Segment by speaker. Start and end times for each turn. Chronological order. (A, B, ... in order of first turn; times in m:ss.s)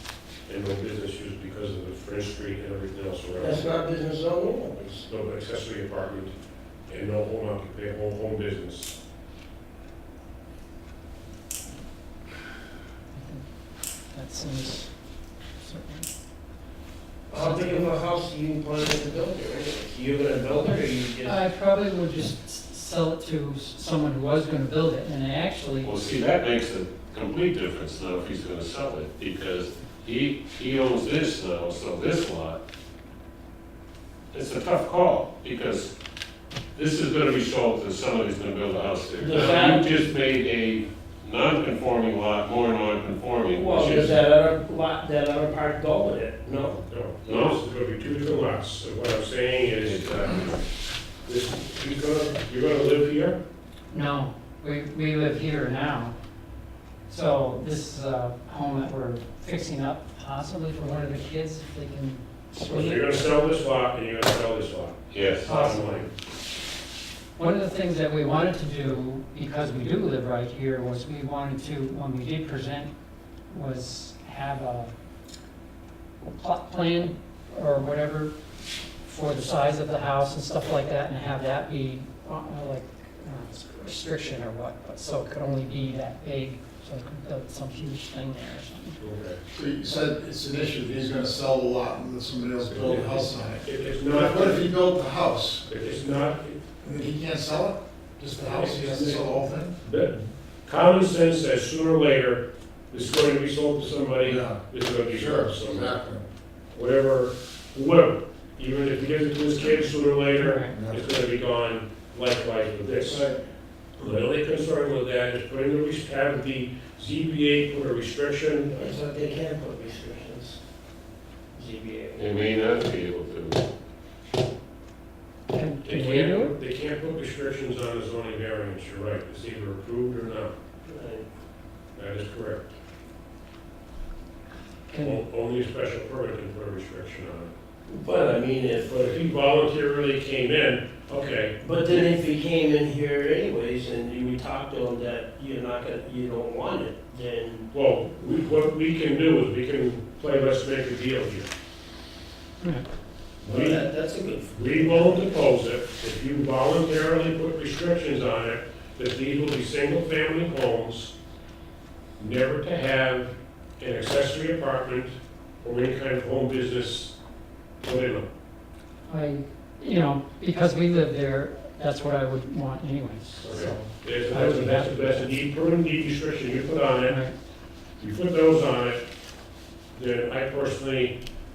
0:00.5-0:03.7 A
0:03.4-0:05.0 B
0:05.0-0:06.3 A
0:06.9-0:09.0 A
0:13.1-0:14.9 C
0:15.5-0:16.1 C
0:17.3-0:21.4 B
0:17.4-0:17.9 C
0:21.2-0:25.9 C
0:25.8-0:32.6 D
0:34.3-0:35.9 D
0:36.7-0:44.2 D
0:39.2-0:40.0 B
0:43.5-0:47.5 B
0:46.9-0:50.5 A
0:49.8-0:50.5 D
0:51.2-0:53.4 A
0:53.9-0:56.2 C
0:57.1-1:03.2 C
1:02.6-1:06.1 A
1:05.1-1:05.6 D
1:05.4-1:06.1 C
1:07.4-1:12.9 C
1:13.5-1:14.9 C
1:16.3-1:18.3 C
1:19.0-1:29.0 C
1:29.0-1:29.4 A
1:29.5-1:35.7 E
1:32.7-1:34.6 A
1:35.7-1:36.6 A
1:36.8-1:39.8 E
1:38.4-1:39.3 A
1:39.8-1:46.0 A
1:44.2-1:46.2 E
1:46.7-1:53.3 A
1:50.4-1:50.7 C
1:50.7-1:51.0 E
1:54.0-1:58.9 A
1:58.8-2:00.6 B
2:01.5-2:02.3 B
2:02.1-2:03.6 D
2:05.5-2:06.5 C
2:05.8-2:10.5 A
2:10.8-2:11.3 B
2:12.0-2:12.7 A
2:14.9-2:15.2 C
2:15.0-2:17.5 A
2:17.9-2:18.9 B
2:18.9-2:22.0 A
2:21.6-2:27.7 B
2:27.7-2:31.5 A
2:32.6-2:32.8 C
2:33.4-2:35.4 B
2:33.4-2:33.8 A
2:34.5-2:41.1 A
2:42.2-2:47.2 A
2:47.8-2:48.3 A
2:49.1-2:55.4 C
2:53.4-2:57.2 A
2:57.1-2:57.3 C
2:58.0-2:59.0 A
2:59.9-3:01.2 A